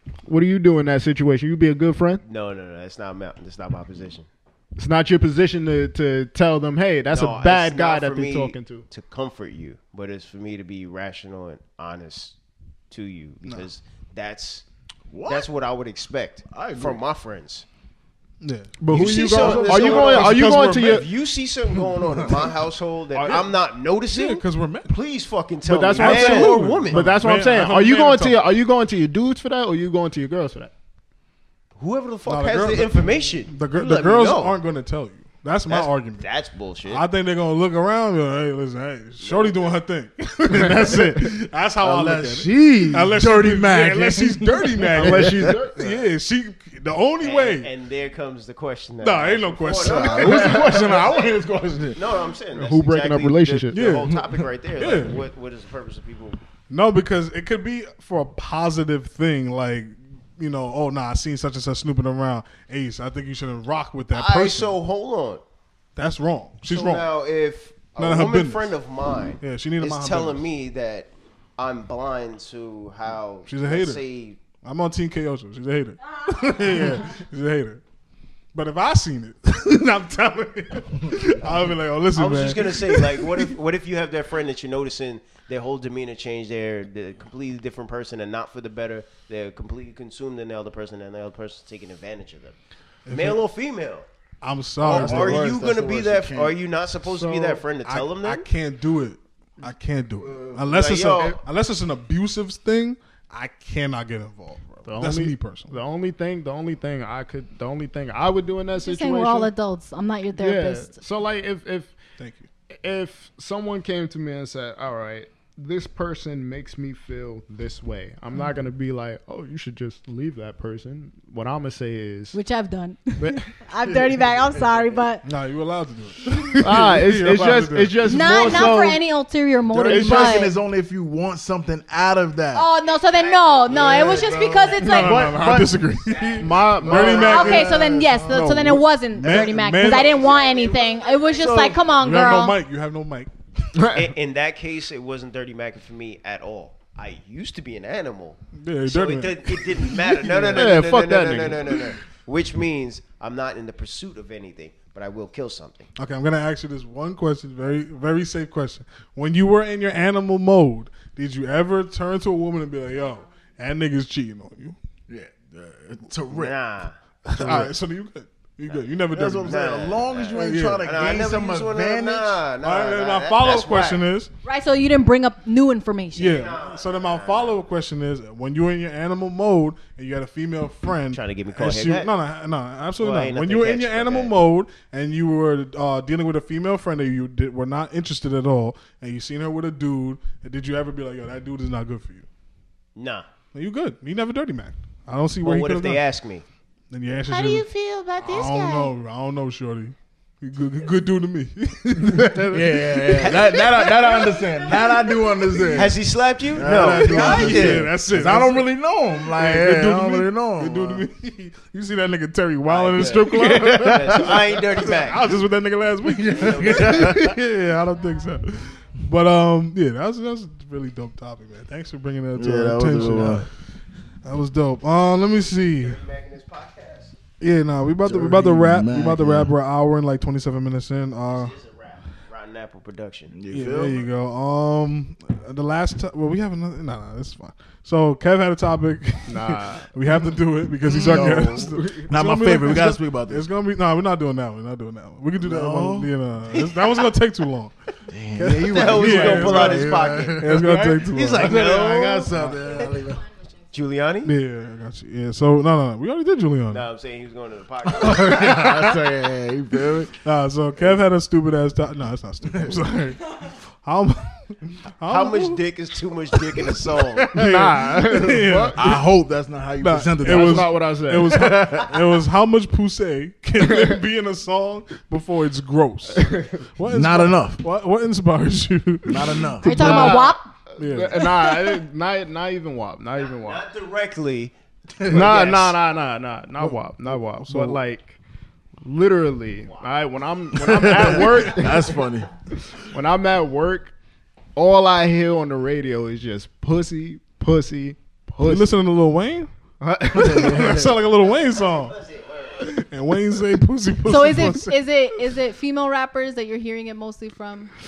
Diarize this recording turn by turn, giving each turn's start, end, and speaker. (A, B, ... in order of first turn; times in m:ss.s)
0:00.2-0:02.2 A
0:02.2-0:04.3 B
0:04.8-0:08.8 A
0:07.1-0:12.3 B
0:12.9-0:14.6 B
0:15.1-0:15.5 C
0:15.2-0:17.6 B
0:16.5-0:17.0 C
0:18.4-0:21.0 D
0:18.8-0:21.0 A
0:18.9-0:27.2 B
0:19.3-0:20.3 C
0:23.1-0:23.5 A
0:24.1-0:24.9 D
0:25.6-0:30.7 A
0:26.0-0:28.4 D
0:31.8-0:34.6 B
0:32.2-0:36.2 D
0:35.7-0:37.0 B
0:36.8-0:47.7 D
0:39.2-0:39.7 B
0:40.5-0:41.3 A
0:41.8-0:45.6 C
0:45.0-0:45.9 A
0:47.2-0:51.4 B
0:49.0-0:50.8 D
0:49.8-0:52.2 C
0:51.9-0:56.4 B
0:52.5-0:53.9 A
0:53.7-0:55.2 D
0:56.7-1:04.8 D
1:04.1-1:05.4 B
1:06.0-1:07.1 D
1:06.7-1:14.4 B
1:08.0-1:08.7 D
1:09.4-1:10.4 D
1:13.4-1:14.0 D
1:14.6-1:17.8 D
1:18.5-1:23.5 D
1:22.1-1:32.5 B
1:33.0-1:33.4 D
1:33.1-1:34.0 B
1:34.4-1:35.5 D
1:34.8-1:36.6 C
1:34.8-1:38.4 B
1:37.0-1:37.6 A
1:37.8-1:45.7 D
1:40.2-1:40.6 C
1:40.7-1:41.4 B
1:44.8-1:49.5 A
1:48.8-1:51.0 E
1:50.3-1:51.9 A
1:52.2-1:52.5 D
1:52.7-2:02.4 A
2:02.3-2:05.2 E
2:03.2-2:03.5 A
2:05.2-2:08.7 D
2:06.6-2:09.0 A
2:08.0-2:10.5 E
2:09.7-2:12.7 C
2:09.8-2:10.4 A
2:12.5-2:15.4 E
2:12.9-2:14.7 B
2:13.7-2:15.7 C
2:14.8-2:17.7 D
2:16.0-2:17.5 B
2:16.4-2:17.4 A
2:16.8-2:18.6 C
2:17.1-2:22.6 E
2:18.2-2:20.2 D
2:19.2-2:19.7 C
2:19.8-2:21.9 B
2:22.0-2:23.3 D
2:23.8-2:24.1 A
2:23.9-2:35.9 B
2:28.6-2:30.6 D
2:30.5-2:31.9 A
2:36.0-2:44.8 D
2:45.1-2:46.5 C
2:46.3-2:46.9 B
2:47.2-2:49.6 D
2:49.1-2:52.4 C
2:49.4-2:54.0 B
2:50.3-2:50.8 D
2:52.6-2:54.3 D
2:54.4-2:56.4 E
2:56.1-2:57.6 B
2:56.2-3:12.2 D
3:01.1-3:02.1 B
3:03.0-3:04.3 B
3:13.0-3:13.2 B
3:13.5-3:16.0 D
3:15.4-3:16.4 B
3:16.9-3:22.5 D
3:17.3-3:18.9 E
3:22.4-3:26.0 C
3:23.2-3:24.3 B
3:25.7-3:27.9 B
3:26.5-3:31.0 C
3:26.6-3:28.7 D
3:29.3-3:43.5 D
3:32.7-3:35.3 B
3:33.5-3:34.3 C
3:36.1-3:37.4 C
3:36.2-3:37.4 B
3:42.4-3:43.5 C
3:44.2-3:46.0 D
3:45.6-3:47.2 B
3:47.4-3:51.5 D
3:48.0-3:49.5 C
3:51.3-3:53.3 B
3:53.3-3:54.0 C
3:53.5-4:07.7 D
3:59.3-3:59.9 A
4:00.8-4:03.4 C
4:01.0-4:02.0 A
4:05.4-4:06.1 C
4:06.5-4:07.1 B
4:08.1-4:13.2 C
4:08.4-4:11.6 D
4:08.6-4:12.4 B
4:12.3-4:12.6 D
4:13.7-4:14.3 B
4:14.2-4:16.8 D
4:16.7-4:18.8 B
4:17.9-4:20.1 C
4:18.0-4:18.8 D
4:20.2-4:25.6 D
4:25.1-4:27.3 B
4:27.3-4:28.8 A
4:27.3-4:29.0 D
4:28.7-4:31.9 C
4:29.8-4:40.2 D
4:30.2-4:31.5 A
4:33.6-4:34.0 A
4:36.2-4:36.5 A
4:36.9-4:37.6 C
4:39.0-4:40.1 C
4:39.6-4:40.5 E
4:39.6-4:43.6 A
4:40.8-4:41.3 D
4:43.2-4:44.5 B
4:45.0-4:45.7 C
4:45.0-4:48.2 A
4:45.2-4:45.7 B
4:46.6-4:47.8 D
4:48.8-4:52.0 A
4:50.5-4:52.3 C
4:52.9-4:53.9 A
4:54.6-4:58.7 A
4:58.4-4:59.5 D
4:59.8-5:00.8 A
5:00.1-5:00.9 C
5:00.1-5:02.0 D
5:01.6-5:02.5 B
5:02.6-5:04.8 D
5:04.0-5:07.7 E